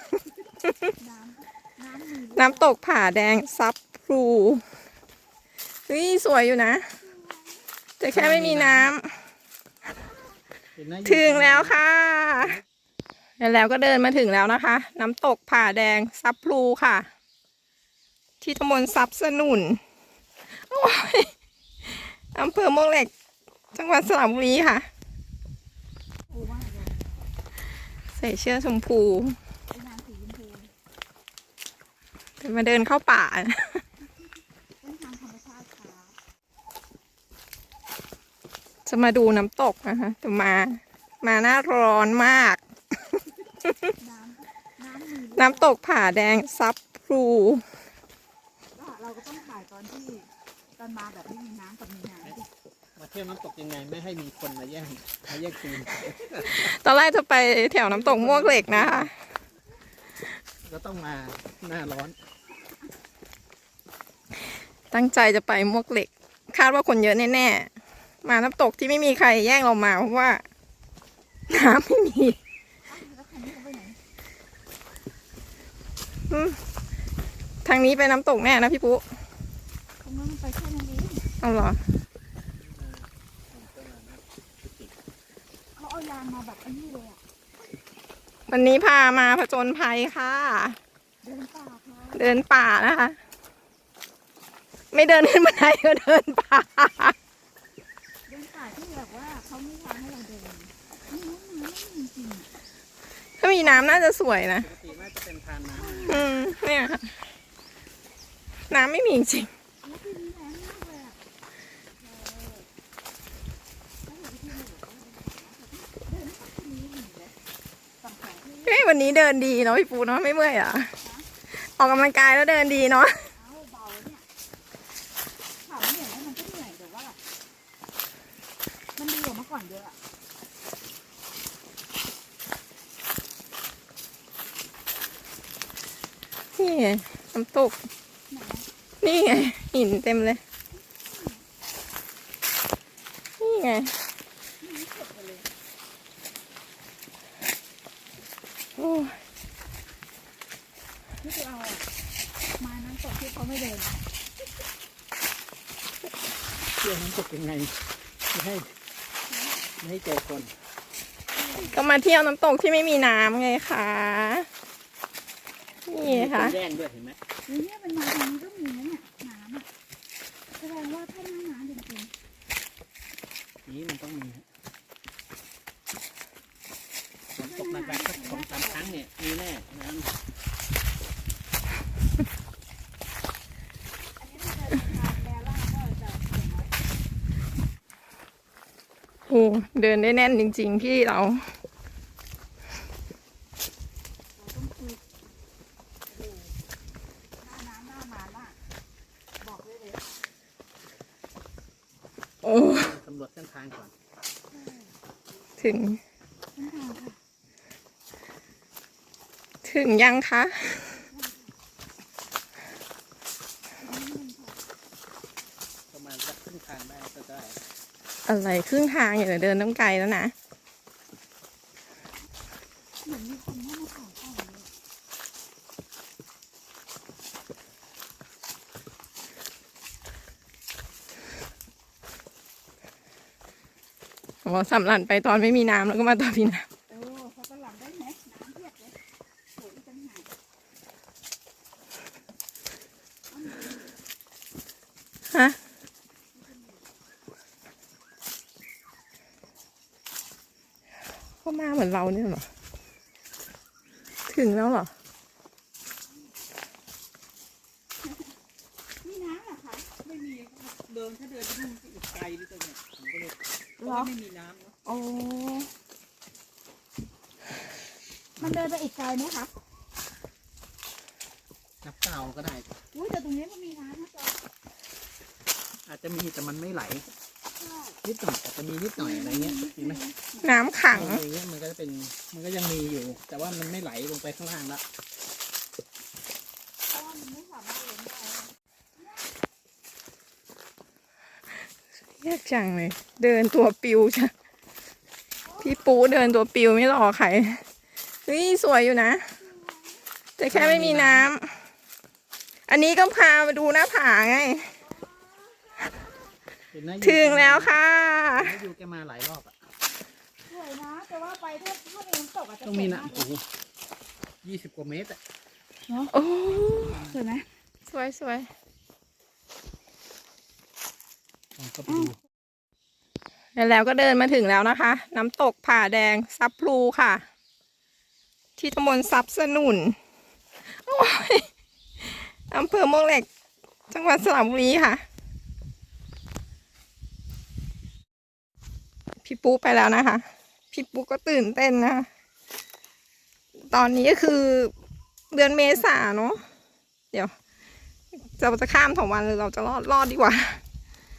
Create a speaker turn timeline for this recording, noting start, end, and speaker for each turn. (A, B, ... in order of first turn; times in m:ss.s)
0:00.6-0:00.9 A
0:01.0-0:02.8 B
0:02.3-0:04.6 A
0:05.9-0:06.9 A
0:07.0-0:07.7 B
0:08.0-0:09.2 A
0:08.1-0:08.9 C
0:10.8-0:11.8 C
0:11.0-0:12.6 A
0:13.4-0:17.1 A
0:18.4-0:19.8 A
0:20.6-0:21.3 A
0:21.8-0:23.1 A
0:23.7-0:24.9 A
0:26.3-0:27.1 B
0:28.2-0:29.4 A
0:29.7-0:30.7 B
0:32.4-0:33.8 A
0:34.8-0:36.2 B
0:38.9-0:42.6 A
0:43.1-0:43.9 A
0:44.0-0:45.8 B
0:45.4-0:47.6 A
0:48.8-0:52.5 B
0:53.0-0:56.7 C
0:56.4-0:59.1 A
0:57.8-0:59.1 C
1:00.6-1:02.2 C
1:04.9-1:07.7 A
1:08.2-1:10.4 A
1:11.5-1:12.4 A
1:12.9-1:14.0 B
1:16.3-1:16.6 A
1:17.6-1:19.0 A
1:20.0-1:21.3 B
1:21.4-1:21.8 A
1:22.5-1:24.9 C
1:25.8-1:27.2 B
1:28.5-1:30.8 A
1:31.2-1:32.4 B
1:32.2-1:33.2 A
1:34.9-1:37.2 A
1:38.3-1:42.5 B
1:43.4-1:44.7 A
1:43.6-1:44.1 B
1:44.6-1:46.3 C
1:45.8-1:46.3 B
1:46.1-1:47.1 A
1:48.7-1:49.5 A
1:49.8-1:51.2 B
1:52.0-1:52.7 B
1:54.0-1:57.4 B
1:58.0-1:58.9 B
1:58.6-2:00.9 A
2:01.0-2:01.3 B
2:01.5-2:03.3 A
2:03.3-2:04.2 B
2:05.6-2:07.2 B
2:09.0-2:10.0 B
2:16.6-2:17.8 A
2:18.3-2:18.7 B
2:19.0-2:20.4 A
2:20.7-2:21.5 B
2:23.4-2:24.0 A
2:24.6-2:25.5 B
2:28.8-2:29.2 A
2:31.2-2:31.9 B
2:32.6-2:34.0 B
2:36.7-2:38.7 C
2:39.3-2:39.7 B
2:39.8-2:40.5 C
2:41.3-2:41.8 B
2:41.6-2:44.5 A
2:45.9-2:46.6 A
2:46.0-2:47.2 C
2:47.5-2:49.7 B
2:50.6-2:52.1 B
2:53.7-2:54.4 C
2:57.4-3:00.2 C
2:57.4-2:59.0 B
3:04.2-3:06.8 B
3:09.3-3:11.4 A
3:14.4-3:15.0 B
3:16.1-3:16.5 B
3:17.4-3:18.6 B
3:19.4-3:20.1 B
3:22.4-3:22.9 A
3:22.5-3:23.9 C
3:24.5-3:24.9 B
3:25.6-3:26.0 A
3:26.6-3:27.2 B
3:29.6-3:30.8 A
3:30.8-3:31.6 B
3:33.8-3:34.6 B
3:35.9-3:37.6 C
3:38.3-3:40.3 A
3:43.0-3:44.7 B
3:54.4-3:56.7 A
3:56.9-3:59.0 B
3:59.5-4:00.3 B
4:03.3-4:04.0 B
4:05.3-4:05.6 A
4:06.3-4:07.0 B
4:11.4-4:12.5 A
4:14.3-4:14.9 A
4:19.0-4:20.0 B
4:20.0-4:24.8 C
4:23.8-4:24.1 B
4:24.8-4:25.7 B
4:28.4-4:29.5 B
4:31.8-4:32.7 C
4:32.9-4:34.4 B
4:35.9-4:37.1 C
4:37.6-4:38.0 B
4:38.0-4:40.0 C
4:39.0-4:40.5 B
4:40.4-4:41.2 A
4:40.9-4:44.8 C
4:46.9-4:49.3 B
4:52.2-4:54.3 A
4:55.4-4:56.0 B
4:55.6-4:57.6 A
4:58.3-4:59.4 A
4:59.4-5:00.1 B
5:00.4-5:01.6 A
5:00.5-5:01.3 C
5:02.7-5:04.8 A
5:04.8-5:06.0 B
5:06.7-5:07.8 C
5:07.0-5:08.6 A
5:08.4-5:09.6 C
5:10.5-5:13.3 B
5:12.6-5:13.4 C
5:14.4-5:15.2 C
5:15.9-5:17.5 B
5:16.1-5:17.0 A
5:17.9-5:18.5 A
5:21.6-5:22.2 C
5:21.9-5:22.1 B
5:23.6-5:27.2 A
5:28.6-5:30.0 A
5:30.7-5:31.5 A
5:32.0-5:33.3 A
5:33.9-5:35.0 A
5:39.2-5:42.1 A
5:43.7-5:44.7 A
5:45.3-5:46.4 A
5:48.2-5:50.6 A